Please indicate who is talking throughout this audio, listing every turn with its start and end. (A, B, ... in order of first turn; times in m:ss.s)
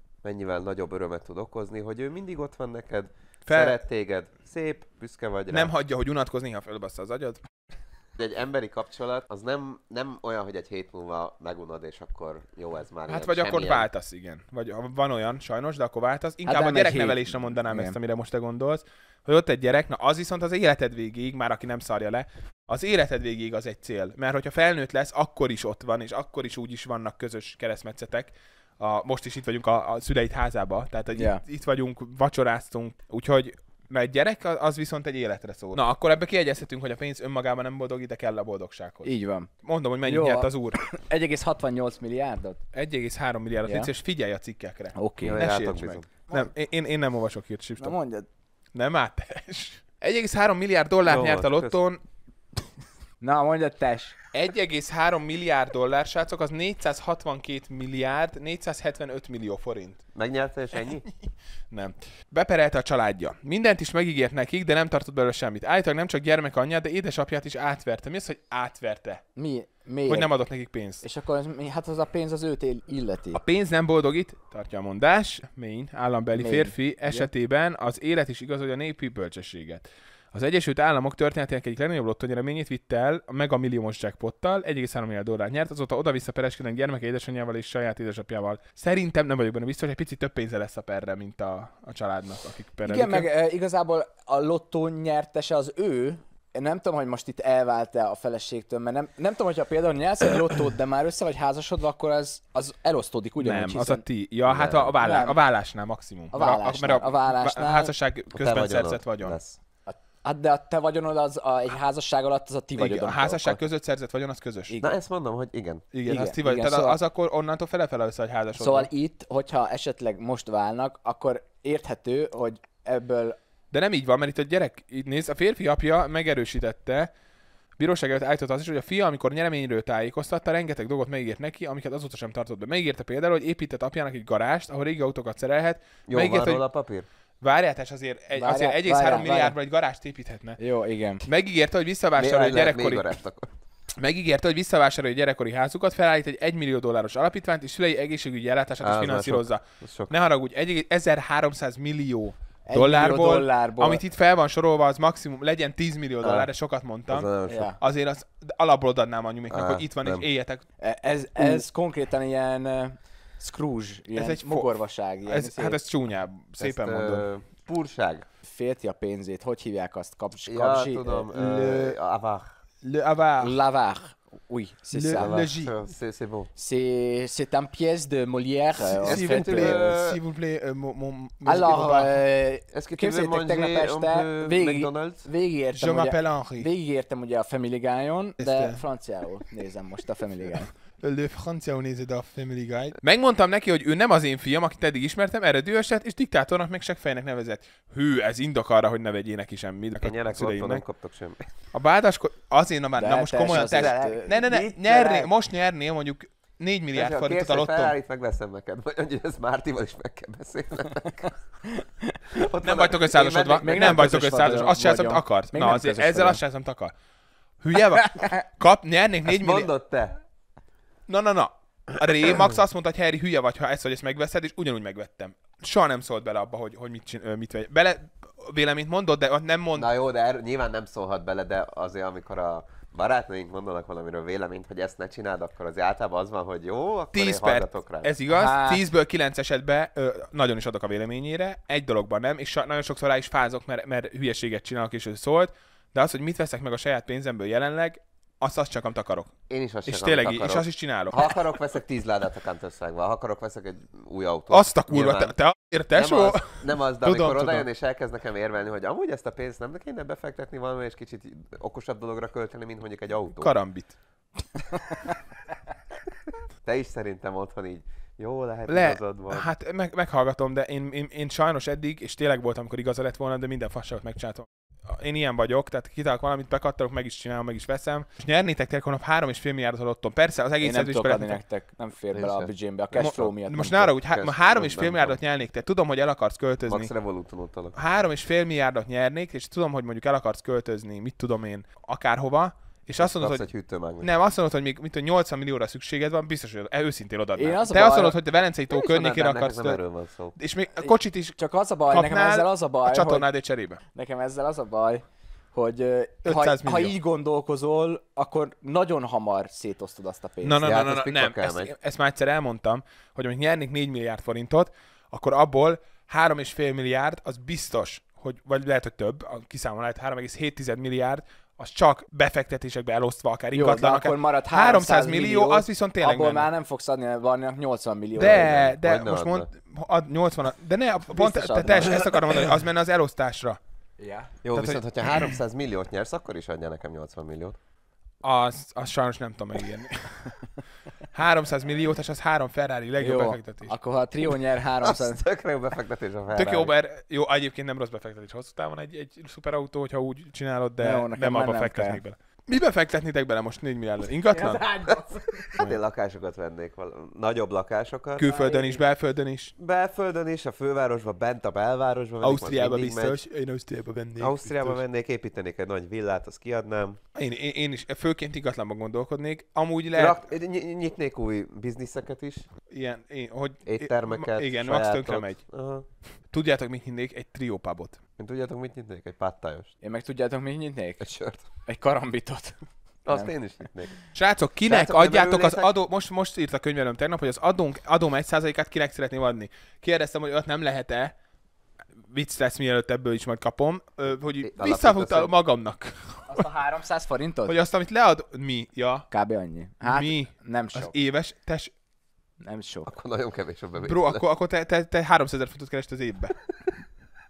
0:00.2-0:05.7 A
0:03.4-0:03.8 B
0:05.5-0:07.4 B
0:08.2-0:13.9 A
0:13.1-0:39.1 B
0:16.4-0:18.0 C
0:31.1-0:31.4 C
0:39.0-0:39.5 C
0:39.6-0:40.8 B
0:40.0-0:42.6 C
0:42.7-0:47.9 B
0:43.6-0:43.9 C
0:45.0-0:45.4 C
0:45.2-0:46.1 A
0:47.8-0:48.2 C
0:48.7-0:52.0 B
0:51.0-0:51.8 A
0:53.2-0:54.2 C
0:54.3-1:00.0 B
1:00.1-1:01.0 A
1:01.7-1:09.2 B
1:09.4-1:10.3 C
1:10.1-1:11.0 B
1:11.0-1:13.4 C
1:13.3-1:33.3 B
1:16.4-1:17.3 C
1:32.8-1:44.0 C
1:43.4-1:49.4 B
1:44.4-1:45.0 A
1:45.0-1:45.4 C
1:46.3-1:47.9 C
1:48.3-1:49.6 A
1:49.8-1:53.6 C
1:52.8-1:54.7 B
1:54.7-1:54.9 C
1:54.8-1:55.8 A
1:55.9-1:58.9 B
1:56.1-1:57.0 C
1:58.6-2:03.4 C
2:03.7-2:07.1 B
2:07.8-2:16.6 B
2:16.1-2:17.0 A
2:17.4-2:20.6 B
2:18.4-2:19.6 C
2:20.6-2:21.2 C
2:21.2-2:23.1 B
2:22.2-2:23.5 A
2:24.0-2:40.6 B
2:28.8-2:30.1 A
2:32.7-2:34.0 C
2:36.2-2:36.5 A
2:37.1-2:37.7 A
2:37.5-2:37.8 C
2:39.5-2:40.2 A
2:40.8-2:45.8 C
2:44.1-2:44.7 B
2:45.2-2:47.3 B
2:46.6-2:48.2 A
2:48.4-2:51.3 C
2:50.4-2:52.6 A
2:51.3-2:52.0 B
2:52.8-2:53.6 B
2:53.4-2:55.4 C
2:54.9-2:55.8 B
2:55.1-2:56.5 A
2:56.6-3:00.0 C
2:58.8-3:02.2 B
2:59.0-3:00.2 A
3:01.4-3:10.7 C
3:02.7-3:05.3 A
3:05.7-3:06.7 B
3:08.4-3:08.8 B
3:11.0-3:20.8 B
3:20.0-3:21.4 A
3:21.7-3:28.0 B
3:23.0-3:24.4 C
3:23.4-3:25.3 A
3:26.9-3:31.3 A
3:32.3-3:34.2 A
3:32.6-3:36.9 B
3:33.6-3:36.4 C
3:37.6-3:39.7 B
3:39.3-3:40.2 A
3:41.1-3:49.9 B
3:42.2-3:42.6 A
3:49.7-3:58.1 A
3:57.1-4:09.3 B
3:58.3-3:58.8 C
4:09.5-4:15.3 A
4:09.8-4:11.3 B
4:14.5-4:17.6 B
4:15.9-4:23.5 A
4:23.4-4:24.0 B
4:26.6-4:29.5 A
4:28.7-4:41.4 B
4:40.6-4:43.9 C
4:42.1-4:43.3 A
4:43.0-4:46.9 B
4:43.9-4:45.2 A
4:46.7-4:47.8 A
4:47.8-4:53.4 B
4:53.0-4:54.1 A
4:54.0-4:59.8 B
4:57.4-4:58.2 C
4:58.7-5:00.3 A
5:00.4-5:01.4 B
5:00.8-5:03.3 C
5:01.9-5:03.8 B
5:03.9-5:10.6 C
5:06.2-5:06.9 B
5:10.4-5:26.5 B
5:10.6-5:11.7 A
5:23.5-5:28.8 C
5:28.2-5:33.6 B
5:28.8-5:29.5 A
5:31.1-5:32.0 C
5:34.0-5:34.3 C
5:34.4-5:37.6 A
5:34.5-5:35.3 B
5:38.2-5:40.4 B
5:41.1-5:43.7 B
5:43.0-5:45.2 C
5:44.8-5:46.7 A
5:46.3-5:54.7 B
5:50.8-5:52.0 C
5:54.3-5:55.5 C
5:55.5-5:58.3 A
5:58.2-5:59.5 B
5:58.3-5:58.8 C
5:59.6-6:03.2 A
6:02.2-6:04.8 B
6:04.2-6:07.0 A
6:07.1-6:10.3 B
6:09.9-6:12.5 A
6:12.7-6:15.4 B
6:13.6-6:15.8 A
6:16.3-6:18.0 B
6:18.2-6:19.7 A
6:19.8-6:21.0 C
6:21.0-6:21.4 A
6:21.6-6:23.3 C
6:23.0-6:24.0 A
6:24.1-6:31.1 B
6:24.6-6:25.7 A
6:32.1-6:36.5 B
6:34.4-6:35.3 A
6:36.3-6:37.5 C
6:37.4-6:39.1 B
6:39.1-6:40.9 C
6:39.8-6:41.7 B
6:42.4-6:42.9 C
6:42.8-6:44.2 A
6:43.8-6:46.4 B